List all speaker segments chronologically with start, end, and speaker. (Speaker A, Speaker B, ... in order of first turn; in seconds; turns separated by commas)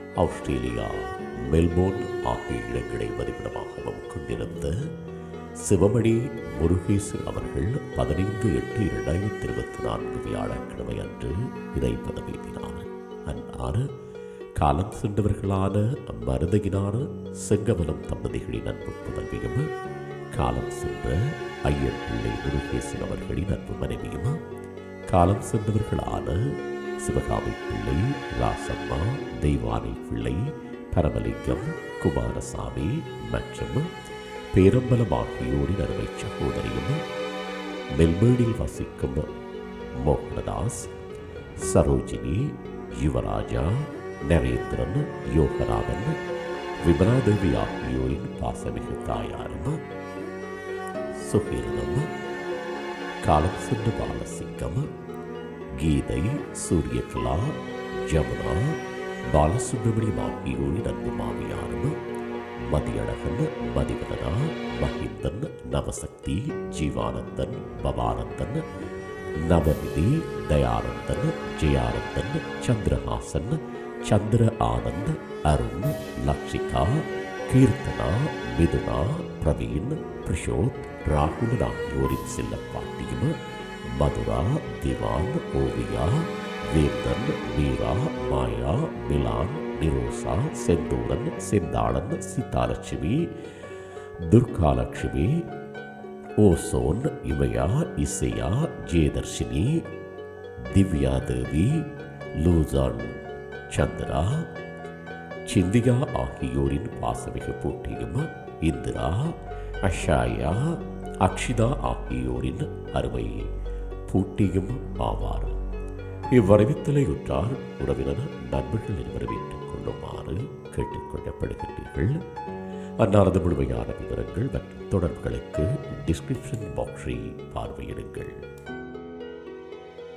Speaker A: 0.2-4.8, Speaker A: 5.6-13.9, Speaker A: 14.6-19.7, Speaker A: 20.4-24.4, Speaker A: 25.1-26.4, Speaker A: 27.0-30.4, Speaker A: 30.9-33.9, Speaker A: 34.5-37.0, Speaker A: 38.0-39.3, Speaker A: 40.0-40.9, Speaker A: 41.7-46.1, Speaker A: 46.9-49.8, Speaker A: 51.2-52.1, Speaker A: 53.3-54.9, Speaker A: 55.8-57.5, Speaker A: 58.1-58.8, Speaker A: 59.3-62.0, Speaker A: 62.7-68.6, Speaker A: 69.5-83.3, Speaker A: 84.0-93.2, Speaker A: 94.3-95.3, Speaker A: 96.4-99.7, Speaker A: 100.7-101.8, Speaker A: 102.4-103.2, Speaker A: 103.7-104.3, Speaker A: 105.5-109.2, Speaker A: 109.9-110.6, Speaker A: 111.2-113.5, Speaker A: 114.1-115.6, Speaker A: 116.4-122.1, Speaker A: 123.0-128.4